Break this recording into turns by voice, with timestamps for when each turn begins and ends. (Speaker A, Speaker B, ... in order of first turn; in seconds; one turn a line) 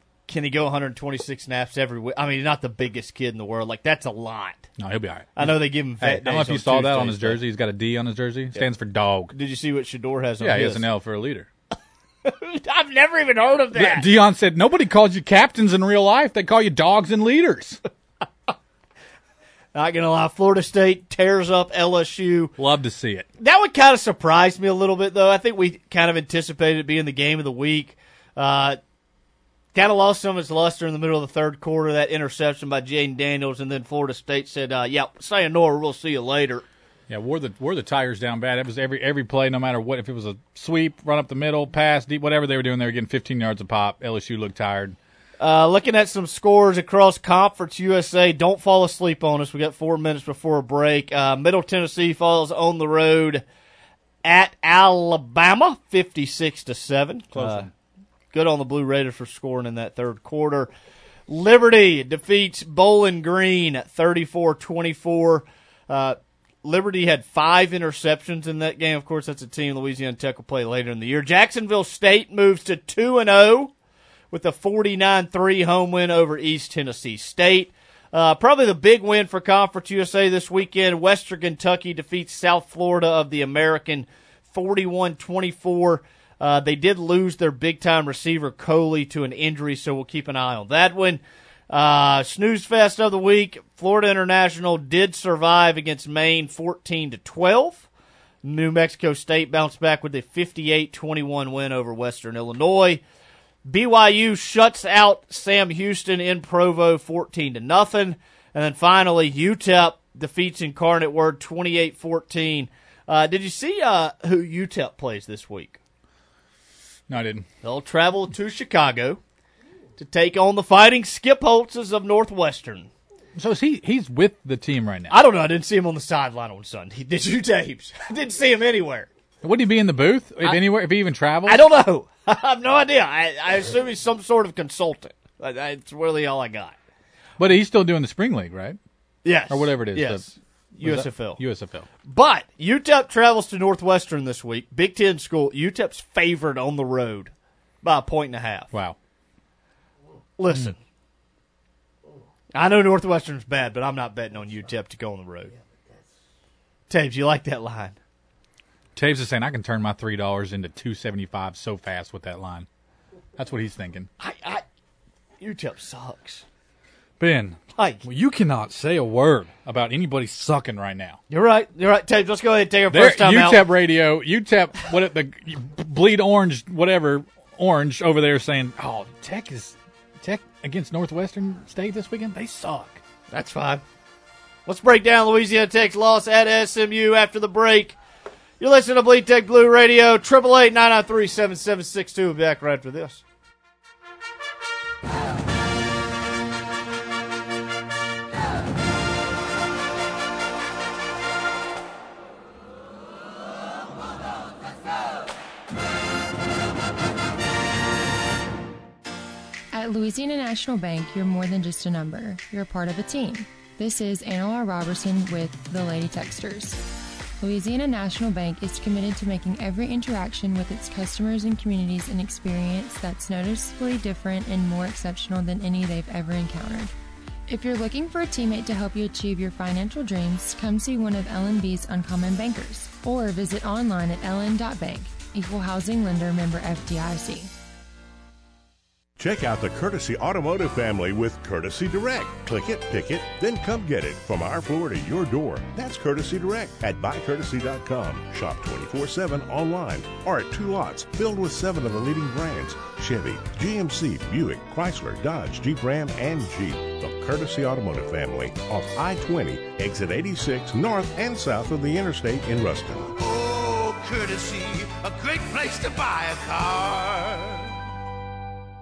Speaker A: 0.3-4.7
Speaker B: 4.8-9.3
Speaker A: 5.4-7.4
Speaker A: 9.3-10.8
Speaker B: 10.4-11.5
Speaker A: 12.2-14.1
Speaker B: 13.7-17.8
Speaker A: 19.7-22.6
Speaker B: 22.6-23.3
Speaker A: 23.4-28.8
Speaker A: 29.7-36.7
Speaker B: 37.1-45.0
Speaker A: 45.4-53.4
Speaker A: 54.2-57.7
Speaker B: 57.3-57.7
Speaker A: 58.3-60.7
Speaker A: 61.3-73.7
Speaker A: 74.3-97.9
Speaker A: 98.4-103.0
Speaker A: 103.7-115.8
Speaker B: 117.1-117.5
Speaker A: 117.6-119.2
Speaker A: 120.0-122.9
Speaker B: 123.4-125.2
Speaker A: 125.1-129.1
Speaker B: 129.4-131.6
Speaker A: 131.5-136.8
Speaker B: 137.4-138.8
Speaker A: 139.2-140.2
Speaker B: 139.5-141.9
Speaker A: 140.8-141.4
Speaker A: 142.0-148.7
Speaker B: 148.7-149.0
Speaker A: 150.4-150.8
Speaker A: 152.5-155.5
Speaker A: 156.9-158.0
Speaker B: 158.9-162.7
Speaker B: 163.4-164.1
Speaker A: 164.2-164.6
Speaker A: 165.4-166.4
Speaker B: 167.2-171.2
Speaker A: 167.8-168.0
Speaker A: 171.3-173.6
Speaker B: 172.9-183.0
Speaker A: 183.3-183.8
Speaker A: 184.7-188.0
Speaker A: 188.6-193.2
Speaker C: 209.7-216.8
Speaker C: 217.4-226.9
Speaker C: 227.5-237.5
Speaker D: 239.2-263.2
Speaker E: 263.1-267.7